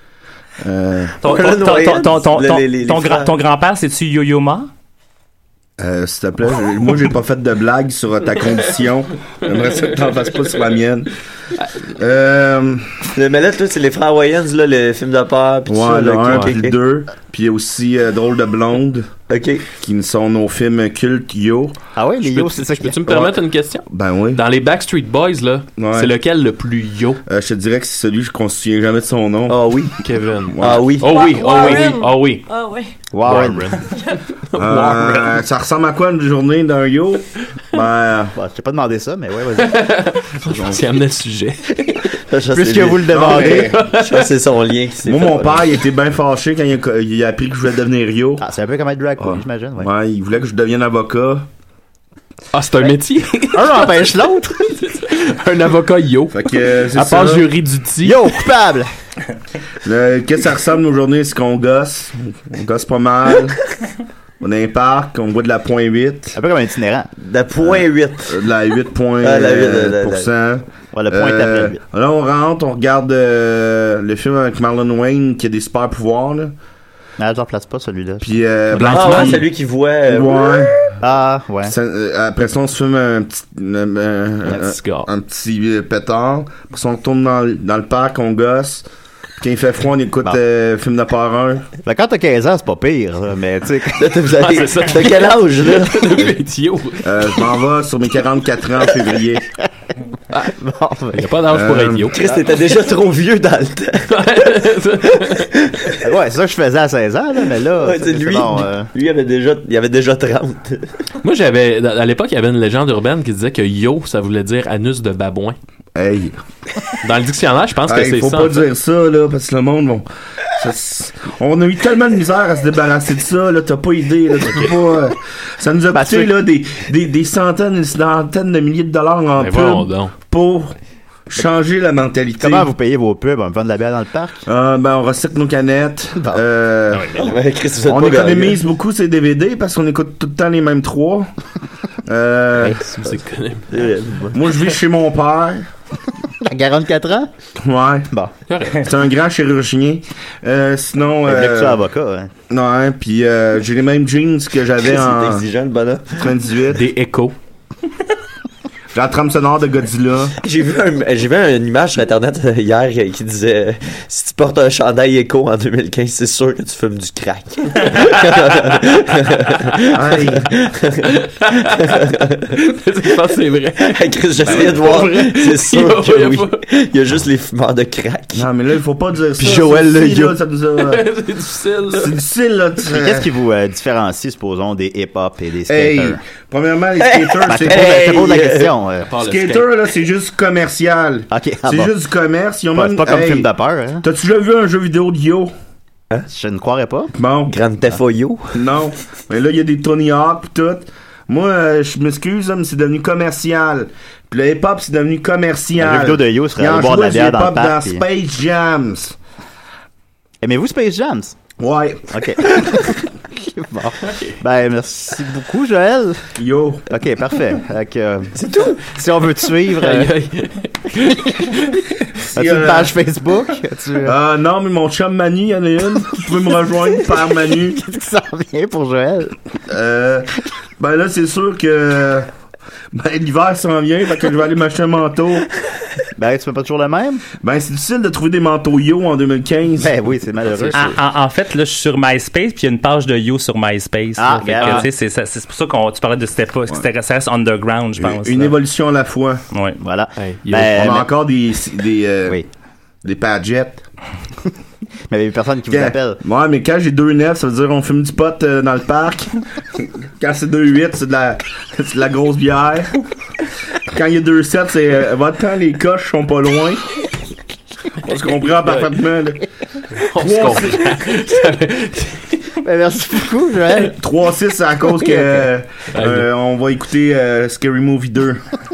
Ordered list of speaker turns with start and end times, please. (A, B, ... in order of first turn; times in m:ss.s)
0:00.6-0:01.2 A
0:01.2-0:04.7 B
0:01.2-0:03.3 C
0:05.8-0:11.1 A
0:09.5-0:10.2 D
0:12.0-0:13.0 A
0:13.2-0:16.8 C
0:15.7-0:19.1 A
0:16.2-0:16.6 D
0:19.3-0:19.7 C
0:19.8-0:21.8 A
0:22.0-0:23.4 E
0:22.2-0:27.2 D
0:23.9-0:24.4 A
0:25.8-0:26.2 A
0:27.3-0:29.7 A
0:29.5-0:30.0 C
0:30.0-0:32.4 D
0:30.5-0:30.9 A
0:30.6-0:31.2 C
0:31.0-0:32.9 F
0:33.1-0:33.8 E
0:33.2-0:35.4 D
0:33.9-0:34.2 F
0:34.6-0:38.3 A
0:38.4-0:40.8 E
0:39.6-0:42.1 D
0:42.3-0:45.7 C
0:42.5-0:43.7 E
0:43.1-0:43.8 A
0:43.4-0:44.3 D
0:45.0-0:48.4 A
0:48.4-0:49.9 E
0:49.2-0:51.5 A
0:52.5-0:54.1 D
0:53.5-0:54.8 E
0:54.7-0:58.3 D
0:56.3-0:57.5 A
0:58.0-0:58.9 E
0:59.8-1:03.6 A
1:04.4-1:06.4 A
1:06.4-1:07.1 E
1:07.2-1:08.4 C
1:07.6-1:16.5 A
1:09.2-1:10.3 C
1:10.9-1:11.8 E
1:17.2-1:18.2 E
1:18.2-1:19.5 A
1:18.7-1:19.4 D
1:18.9-1:20.7 C
1:20.1-1:20.8 A
1:21.0-1:21.7 E
1:21.7-1:28.8 A
1:24.5-1:25.1 D
1:29.4-1:31.6 A
1:31.8-1:34.2 E
1:34.0-1:36.3 C
1:34.3-1:37.3 D
1:37.0-1:39.4 A
1:40.4-1:41.3 E
1:41.1-1:42.2 D
1:41.5-1:42.1 A
1:42.1-1:44.6 C
1:44.1-1:45.5 D
1:45.2-1:46.0 C
1:46.0-1:48.9 E
1:47.8-1:50.9 C
1:51.2-1:55.6 D
1:56.0-1:56.4 A
1:57.0-1:58.7 D
1:57.8-2:00.0 A
2:00.6-2:10.7 A
2:05.9-2:06.3 E
2:09.4-2:10.2 D
2:11.3-2:12.7 A
2:12.4-2:14.4 E
2:14.5-2:17.2 A
2:16.9-2:17.4 D
2:17.2-2:18.6 C
2:17.8-2:21.3 A
2:22.1-2:22.8 A
2:22.6-2:23.7 D
2:23.7-2:24.3 C
2:24.3-2:25.7 A
2:26.4-2:27.3 E
2:27.6-2:28.1 A
2:28.5-2:29.0 D
2:28.7-2:31.8 A
2:31.2-2:32.3 E
2:32.5-2:35.4 A
2:34.8-2:36.3 C
2:36.2-2:36.9 A
2:36.7-2:37.3 D
2:38.9-2:40.4 A
2:40.4-2:51.1 C
2:49.9-2:50.5 A
2:51.1-2:56.6 D
2:51.8-2:52.5 C
2:53.8-2:58.5 C
2:58.3-3:01.0 A
2:59.4-3:02.2 D
2:59.4-2:59.8 C
3:01.9-3:03.3 A
3:02.9-3:06.2 E
3:05.7-3:08.2 A
3:07.0-3:08.7 C
3:07.5-3:09.1 E
3:09.1-3:09.7 D
3:09.2-3:13.5 A
3:11.3-3:11.9 E
3:12.7-3:14.0 E
3:14.0-3:15.5 A
3:16.3-3:17.1 E
3:17.2-3:17.6 A
3:17.5-3:18.6 C
3:18.5-3:29.2 A
3:25.8-3:28.0 E
3:30.4-3:31.4 E
3:31.6-3:32.7 A
3:32.1-3:36.3 E
3:36.4-3:36.9 A
3:36.9-3:40.2 E
3:38.4-3:38.8 C
3:39.8-3:41.8 D
3:41.0-3:41.5 E
3:42.3-3:42.9 A
3:42.3-3:44.2 E
3:44.0-3:47.8 A
3:47.4-3:49.4 E
3:49.7-3:52.3 A
3:52.9-3:55.5 A
3:56.2-3:57.2 E
3:57.4-3:59.9 A
3:59.8-4:00.8 E
4:00.4-4:01.0 D
4:00.7-4:08.6 B
4:04.2-4:04.9 E
4:04.3-4:04.9 D
4:08.0-4:09.4 A
4:09.5-4:09.8 B
4:09.8-4:11.1 E
4:10.2-4:11.0 D
4:10.7-4:12.4 A
4:13.0-4:13.8 A
4:15.1-4:16.2 E
4:15.7-4:19.3 A
4:20.2-4:22.9 A
4:23.9-4:26.8 A
4:28.0-4:29.4 A
4:28.6-4:28.9 D
4:30.0-4:32.5 D
4:30.1-4:30.9 A
4:32.6-4:34.0 E
4:33.9-4:38.4 A
4:35.0-4:35.5 E
4:35.9-4:36.3 D